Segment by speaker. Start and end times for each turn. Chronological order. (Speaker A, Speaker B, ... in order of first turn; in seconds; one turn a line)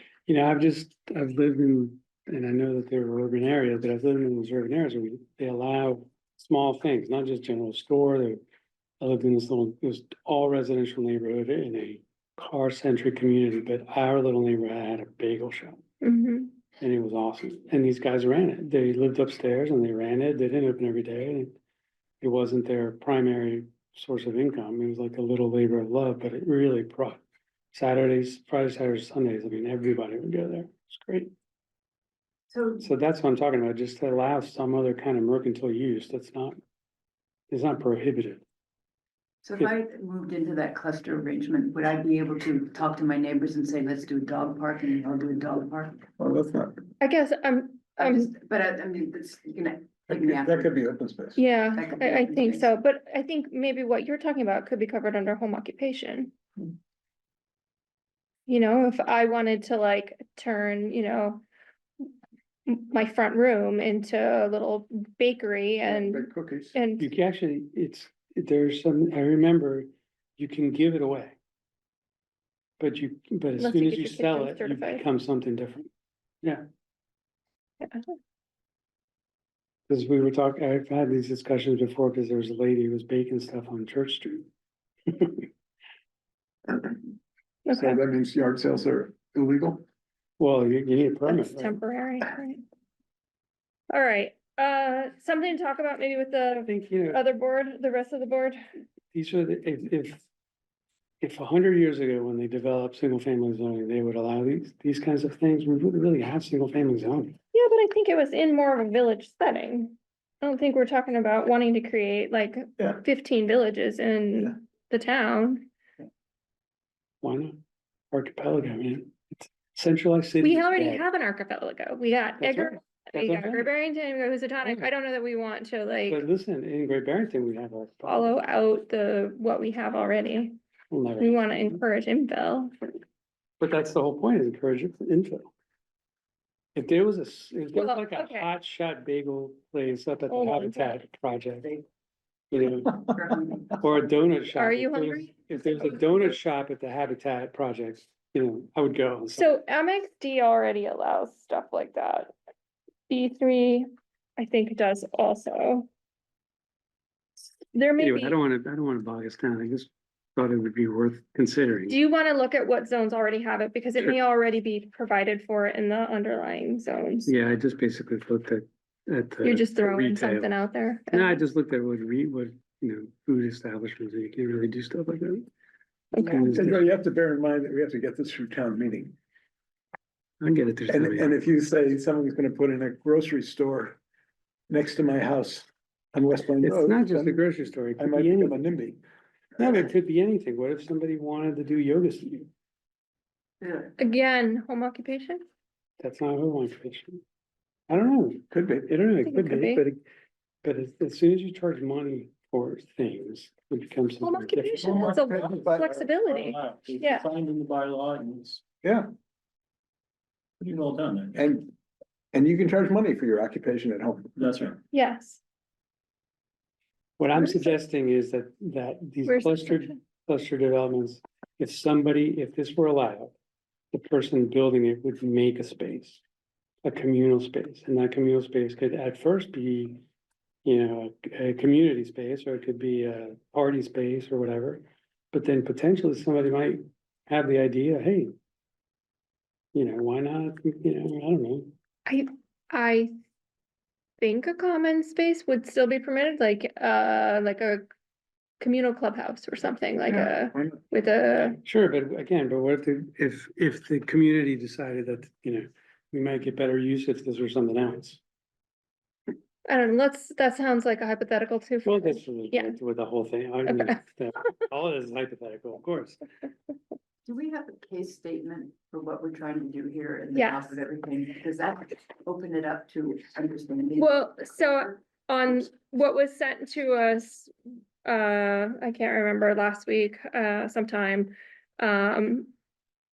Speaker A: 0.3-8.4
Speaker A: 9.0-15.8
Speaker B: 16.0-16.5
Speaker A: 16.8-21.5
Speaker A: 22.2-27.2
Speaker A: 27.7-31.3
Speaker C: 32.5-32.9
Speaker A: 32.8-36.6
Speaker A: 37.5-38.4
Speaker C: 39.4-46.0
Speaker D: 46.2-46.8
Speaker B: 47.0-48.3
Speaker C: 48.0-50.7
Speaker D: 50.1-51.4
Speaker B: 51.4-56.3
Speaker C: 51.8-52.7
Speaker B: 58.5-61.4
Speaker B: 62.7-67.1
Speaker D: 65.8-66.8
Speaker A: 67.0-71.3
Speaker A: 72.8-75.9
Speaker B: 73.6-75.0
Speaker B: 77.8-78.1
Speaker A: 79.9-84.5
Speaker A: 85.1-85.5
Speaker B: 87.7-88.0
Speaker D: 87.8-89.8
Speaker A: 90.4-91.8
Speaker B: 91.2-92.6
Speaker B: 93.9-98.6
Speaker A: 96.7-97.2
Speaker A: 99.1-100.2
Speaker A: 101.2-107.3
Speaker B: 107.5-115.7
Speaker A: 117.2-117.6
Speaker A: 118.1-121.0
Speaker B: 120.4-126.2
Speaker A: 122.4-123.7
Speaker A: 126.1-128.3
Speaker B: 128.1-130.6
Speaker A: 130.9-131.8
Speaker B: 131.2-133.0
Speaker A: 133.6-135.5
Speaker A: 136.7-141.7
Speaker B: 137.7-138.5
Speaker B: 140.3-140.9
Speaker A: 142.5-143.1
Speaker C: 142.9-143.8
Speaker A: 143.7-149.6
Speaker B: 144.5-146.2
Speaker B: 149.3-152.3
Speaker B: 153.1-155.9
Speaker B: 157.7-158.3
Speaker A: 158.0-161.9
Speaker B: 161.9-167.3
Speaker A: 167.2-170.6
Speaker B: 169.4-171.4
Speaker A: 171.1-175.5
Speaker B: 176.1-176.5
Speaker A: 176.1-176.8
Speaker D: 176.5-179.1
Speaker A: 180.4-181.3
Speaker D: 180.9-184.0
Speaker D: 184.7-187.4
Speaker A: 186.6-188.6
Speaker D: 188.0-189.0
Speaker A: 189.6-192.5
Speaker C: 193.6-193.9
Speaker B: 194.0-195.4
Speaker A: 196.0-197.2
Speaker A: 197.9-200.0
Speaker D: 198.5-198.9
Speaker B: 199.2-199.8
Speaker A: 200.6-205.1
Speaker B: 204.2-207.2
Speaker E: 204.8-208.6
Speaker D: 208.8-209.1
Speaker E: 210.6-211.4
Speaker D: 211.3-211.7
Speaker D: 212.3-214.4
Speaker E: 214.3-214.8
Speaker B: 214.9-215.4
Speaker A: 217.2-223.3
Speaker B: 219.2-219.9
Speaker A: 223.9-226.2
Speaker A: 226.8-230.0
Speaker A: 230.6-238.3
Speaker A: 239.7-241.7
Speaker B: 242.1-243.1
Speaker B: 244.2-247.8
Speaker B: 248.6-251.6
Speaker D: 250.3-250.8
Speaker A: 251.6-258.2
Speaker B: 259.6-262.8
Speaker A: 261.8-266.2
Speaker B: 263.6-263.9
Speaker C: 267.2-274.9
Speaker B: 270.3-270.8
Speaker B: 274.0-277.5
Speaker B: 278.0-282.5